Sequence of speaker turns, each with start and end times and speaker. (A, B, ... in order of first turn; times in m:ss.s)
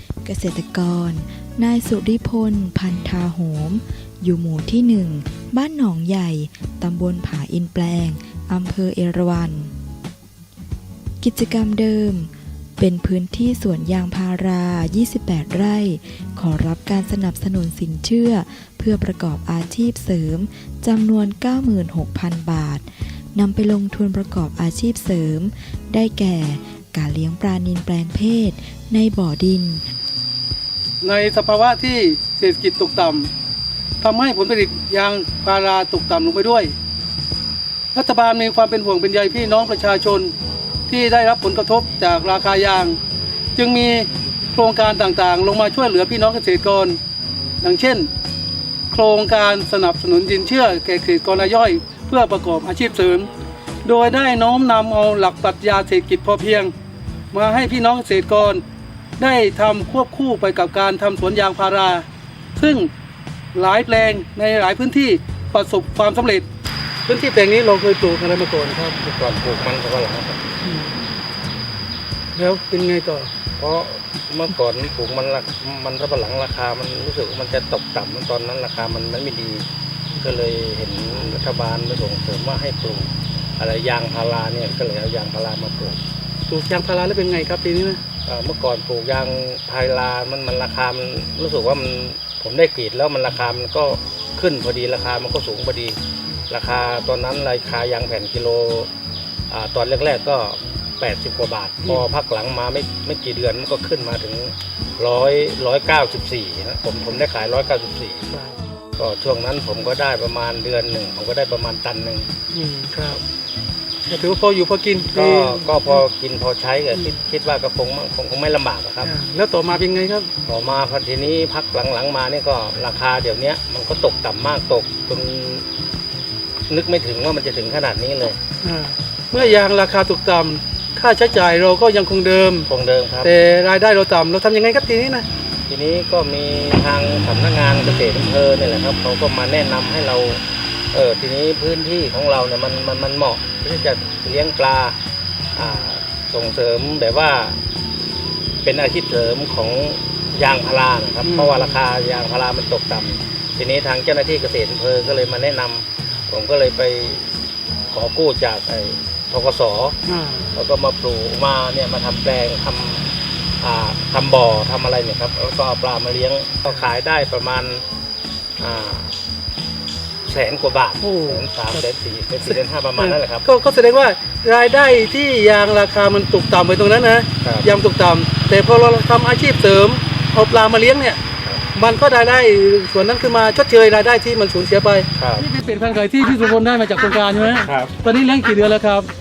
0:00.2-0:09.7 A
0:11.2-0:29.8 A
0:31.0-0:33.3 B
0:34.0-0:36.7 B
0:37.9-0:40.3 B
0:40.9-0:43.0 B
0:43.5-0:47.0 B
0:47.6-0:48.1 B
0:48.9-0:53.3 B
0:53.8-0:56.7 B
0:57.3-0:58.6 B
0:59.2-1:02.0 B
1:02.6-1:02.9 B
1:03.5-1:06.5 B
1:07.0-1:09.0 B
1:09.0-1:10.4 C
1:10.6-1:11.0 B
1:12.4-1:13.3 B
1:13.6-1:19.6 C
1:20.2-1:26.0 C
1:26.5-1:28.0 B
1:28.2-1:36.0 C
1:36.5-1:38.9 C
1:39.5-1:48.2 C
1:49.0-1:52.3 C
1:52.5-1:53.2 B
1:54.0-1:56.0 B
1:55.1-1:59.1 C
1:59.0-2:00.3 B
2:00.5-2:05.7 C
2:06.7-2:08.4 C
2:08.6-2:12.7 B
2:09.3-2:09.6 C
2:12.7-2:13.3 C
2:13.2-2:15.3 B
2:15.7-2:25.0 C
2:25.5-2:27.6 C
2:28.6-2:37.4 C
2:31.2-2:31.8 B
2:37.9-2:40.0 C
2:40.0-2:40.5 B
2:40.5-2:47.8 C
2:48.6-2:49.1 C
2:50.3-2:53.4 C
2:51.0-2:51.8 B
2:52.5-3:01.2 B
2:57.4-2:57.7 C
3:01.7-3:09.1 B
3:05.2-3:05.4 C
3:07.6-3:07.9 C